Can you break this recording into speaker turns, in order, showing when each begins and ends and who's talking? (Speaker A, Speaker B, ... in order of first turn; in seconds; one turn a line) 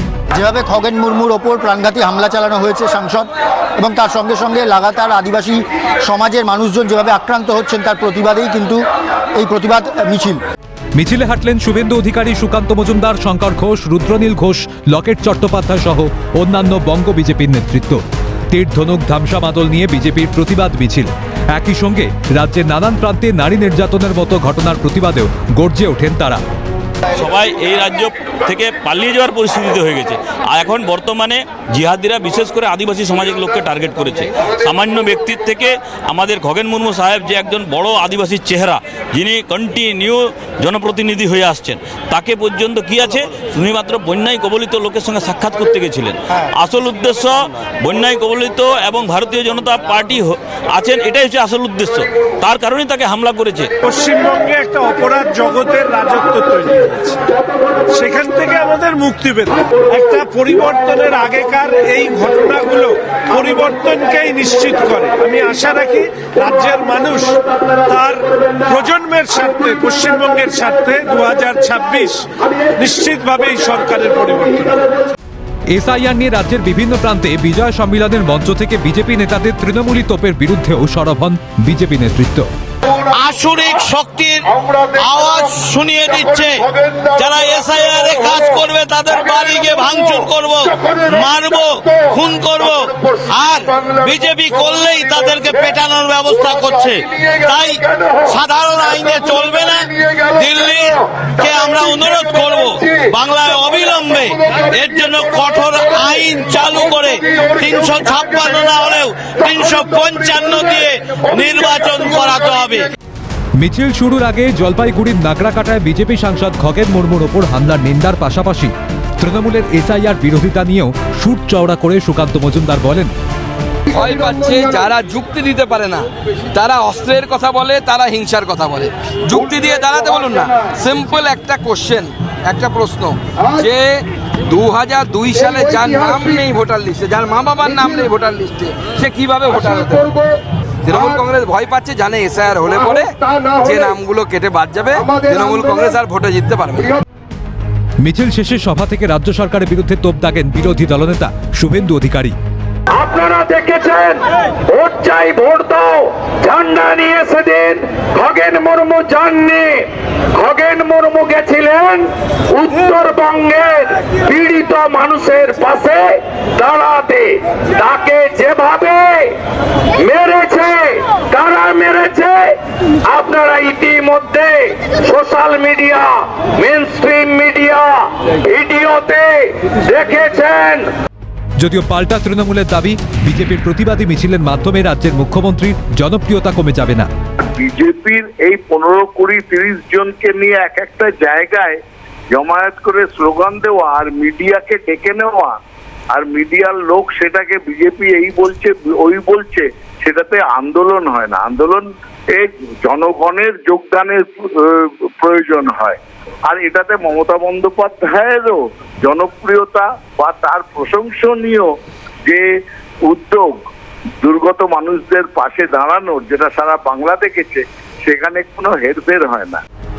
Speaker A: 0.3-8.8
Speaker A: 9.3-10.4
Speaker B: 10.9-18.0
Speaker B: 18.5-26.4
Speaker C: 27.1-53.8
Speaker D: 53.8-57.3
Speaker D: 57.9-74.9
Speaker B: 75.7-82.5
Speaker E: 83.0-112.9
Speaker B: 113.6-123.1
Speaker F: 123.9-140.2
Speaker F: 140.8-147.0
Speaker B: 148.0-152.3
Speaker G: 152.9-169.4
Speaker G: 169.9-180.9
Speaker B: 181.6-187.1
Speaker H: 187.4-191.8
Speaker H: 192.3-195.6
Speaker H: 196.1-211.7
Speaker H: 213.1-213.6
Speaker H: 214.2-219.6